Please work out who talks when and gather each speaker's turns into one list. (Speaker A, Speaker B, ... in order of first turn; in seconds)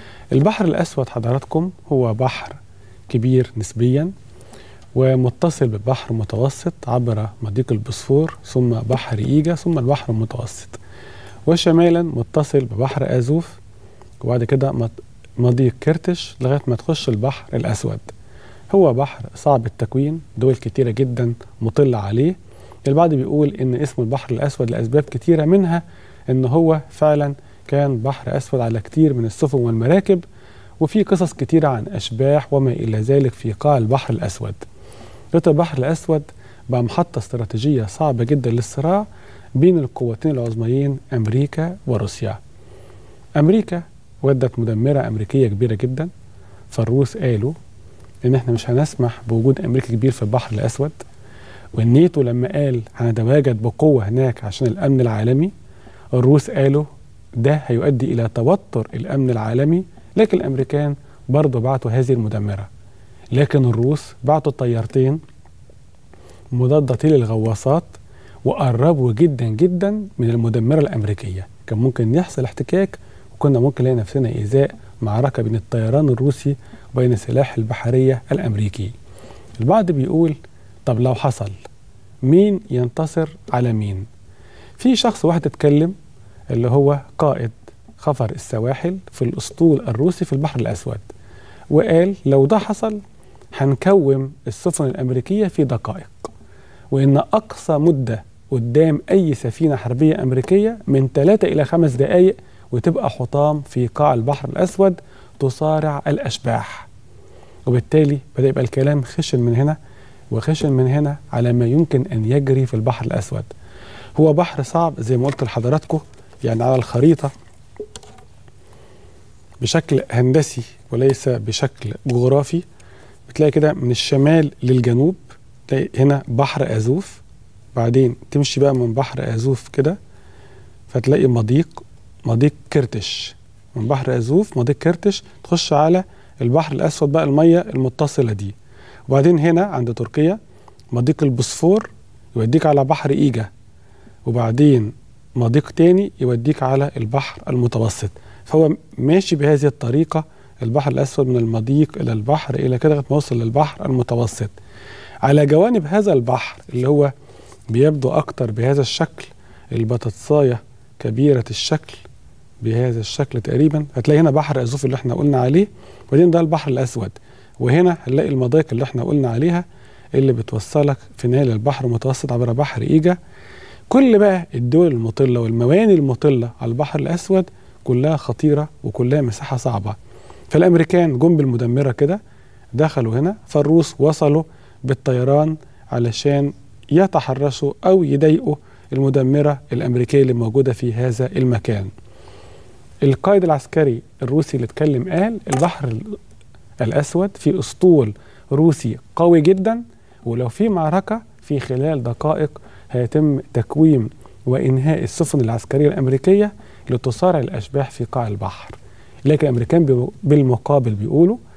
Speaker A: 0.3-4.1, 4.9-10.8, 11.5-13.6, 14.2-18.1, 18.7-30.2, 30.8-34.6, 35.3-42.4, 43.4-46.1, 46.7-47.5, 48.2-51.0, 51.7-55.5, 56.1-56.9, 57.4-62.7, 63.3-65.2, 66.5-78.9, 79.6-81.6, 82.2-84.1, 84.8-85.9, 86.5-91.1, 91.7-93.0, 93.5-96.3, 96.9-106.9, 107.7-109.8, 110.3-113.5, 114.2-117.3, 119.6-122.6, 123.3-127.2, 127.7-130.0, 130.9-138.5, 139.1-140.4, 140.9-143.5, 144.2-154.5, 155.2-157.1, 157.7-162.1, 162.6-173.2, 173.9-180.0, 180.5-182.2, 182.7-191.9, 193.0-196.2, 196.8-211.4